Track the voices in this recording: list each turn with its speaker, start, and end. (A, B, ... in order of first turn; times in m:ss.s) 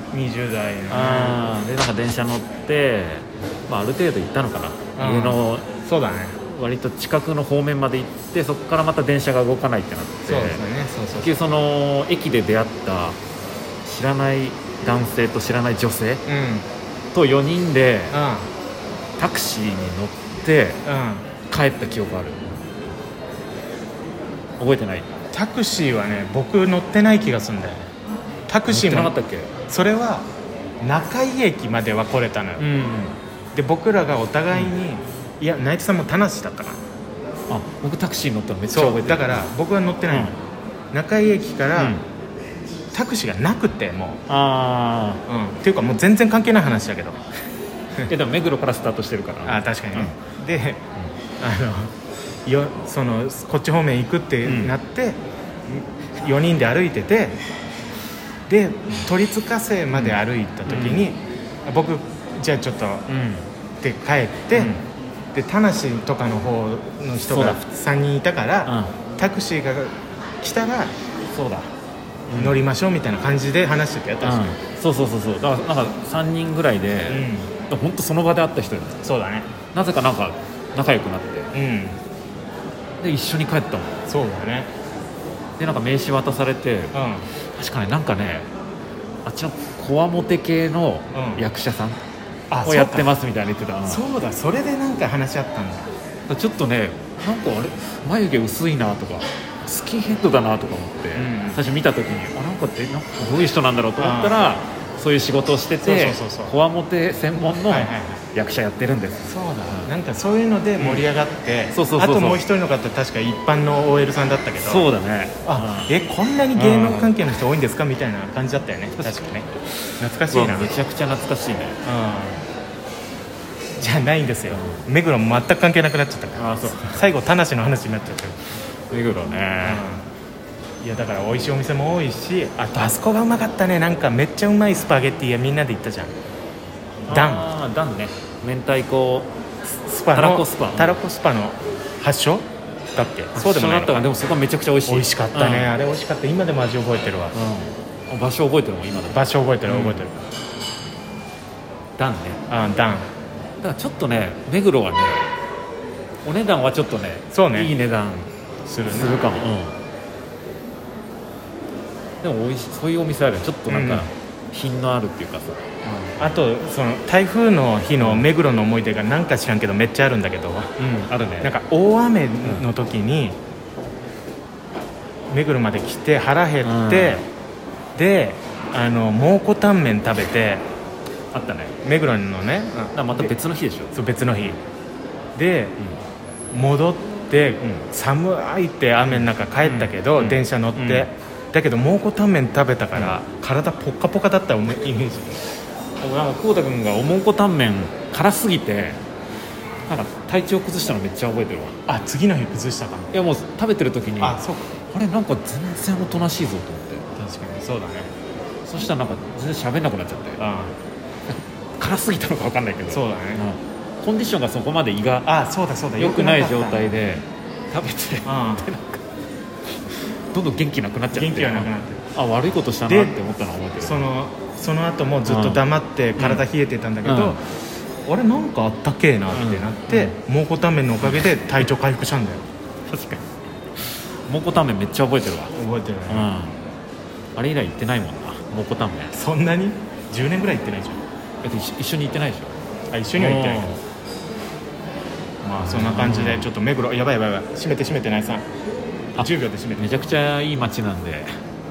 0:00.1-0:01.4 A
0:00.9-0:05.7 B
0:05.0-0:06.4 A
0:06.4-0:10.6 B
0:10.2-0:11.3 A
0:11.2-0:13.2 B
0:13.8-0:16.2 B
0:16.3-0:16.7 A
0:17.1-0:18.2 B
0:18.1-0:18.5 A
0:19.2-0:20.8 B
0:20.8-0:21.3 A
0:21.5-0:22.5 B
0:24.6-0:25.1 B
0:25.3-0:27.8 A
0:28.5-0:29.2 A
0:28.7-0:29.5 B
0:29.7-0:30.3 A
0:30.8-0:32.6 A
0:32.6-0:33.2 B
0:33.6-0:36.8 A
0:37.5-0:39.5 B
0:38.7-0:40.4 A
0:40.1-0:40.3 B
0:40.9-0:42.0 A
0:41.8-0:42.0 B
0:42.9-0:44.2 A
0:44.3-0:45.2 B
0:45.3-0:47.2 A
0:48.1-0:50.2 B
0:49.4-0:50.8 A
0:51.4-0:51.9 A
0:52.4-0:57.4 A
0:54.4-0:54.7 B
0:58.5-1:03.1 A
0:59.9-1:01.1 B
1:03.1-1:03.5 B
1:03.8-1:04.8 A
1:04.5-1:04.8 B
1:05.3-1:10.9 A
1:07.3-1:07.6 B
1:08.7-1:09.0 B
1:11.3-1:11.7 B
1:12.3-1:12.6 B
1:12.4-1:14.6 A
1:14.2-1:19.0 B
1:17.1-1:17.5 A
1:19.0-1:19.5 A
1:19.7-1:21.5 B
1:21.5-1:22.0 A
1:23.0-1:24.0 B
1:24.1-1:24.7 A
1:25.6-1:27.0 B
1:26.9-1:27.3 A
1:27.5-1:28.5 B
1:29.2-1:32.0 B
1:31.1-1:31.5 A
1:32.5-1:33.1 A
1:32.6-1:34.0 B
1:33.9-1:35.9 A
1:36.3-1:49.9 B
1:41.1-1:41.6 A
1:44.0-1:44.6 A
1:45.8-1:46.5 A
1:47.7-1:48.2 A
1:49.2-1:54.9 A
1:50.8-1:51.1 B
1:51.7-1:52.4 B
1:54.6-1:55.9 B
1:55.4-1:59.5 A
1:56.6-1:57.2 B
1:59.0-1:59.7 B
2:00.0-2:00.8 A
2:00.3-2:01.8 B
2:01.8-2:02.4 A
2:03.8-2:08.4 A
2:04.5-2:04.9 B
2:06.4-2:07.0 B
2:08.9-2:09.8 B
2:09.6-2:10.1 A
2:10.8-2:16.2 A
2:17.1-2:19.3 B
2:17.1-2:17.5 A
2:19.7-2:24.1 A
2:20.1-2:21.0 B
2:23.4-2:25.7 B
2:24.9-2:27.4 A
2:27.3-2:30.1 B
2:29.1-2:30.2 A
2:32.0-2:32.4 B
2:32.5-2:33.1 A
2:33.6-2:35.3 B
2:36.2-2:38.3 B
2:37.3-2:37.7 A
2:38.7-2:39.2 A
2:38.8-2:39.8 B
2:42.2-2:45.6 B
2:43.7-2:44.1 A
2:45.8-2:50.7 A
2:48.0-2:48.3 B
2:50.8-2:51.6 B
2:51.4-2:53.4 A
2:55.3-2:57.2 A
2:56.6-2:57.2 B
2:58.0-3:00.6 A
3:01.3-3:01.7 B
3:01.8-3:03.3 A
3:02.9-3:03.9 B
3:03.9-3:04.6 A
3:05.4-3:05.8 A
3:06.5-3:15.4 A
3:09.1-3:11.1 B
3:13.0-3:13.2 B
3:16.0-3:19.0 B
3:19.9-3:21.8 B
3:21.9-3:23.1 A
3:23.1-3:27.1 B
3:24.2-3:24.7 A
3:27.2-3:28.1 A
3:28.6-3:30.4 B
3:30.4-3:30.8 A
3:31.8-3:35.3 B
3:32.9-3:33.4 A
3:35.2-3:37.0 A
3:36.0-3:39.0 B
3:38.3-3:38.7 A
3:40.3-3:44.1 B
3:41.1-3:42.0 A
3:42.9-3:43.2 A
3:43.8-3:47.5 A
3:45.3-3:45.6 B
3:46.2-3:46.4 B
3:47.0-3:47.4 B
3:48.0-3:52.5 A
3:49.3-3:50.1 B
3:51.0-3:51.3 B
3:52.9-3:53.3 B
3:54.3-3:55.5 B
3:55.5-3:56.3 A
3:56.1-3:56.6 B
3:57.4-3:59.2 B
3:59.1-4:01.0 A
4:01.4-4:02.6 B
4:02.9-4:03.8 A
4:03.2-4:03.8 B
4:05.4-4:08.4 A
4:05.5-4:06.5 B
4:09.2-4:11.4 B
4:09.2-4:09.9 A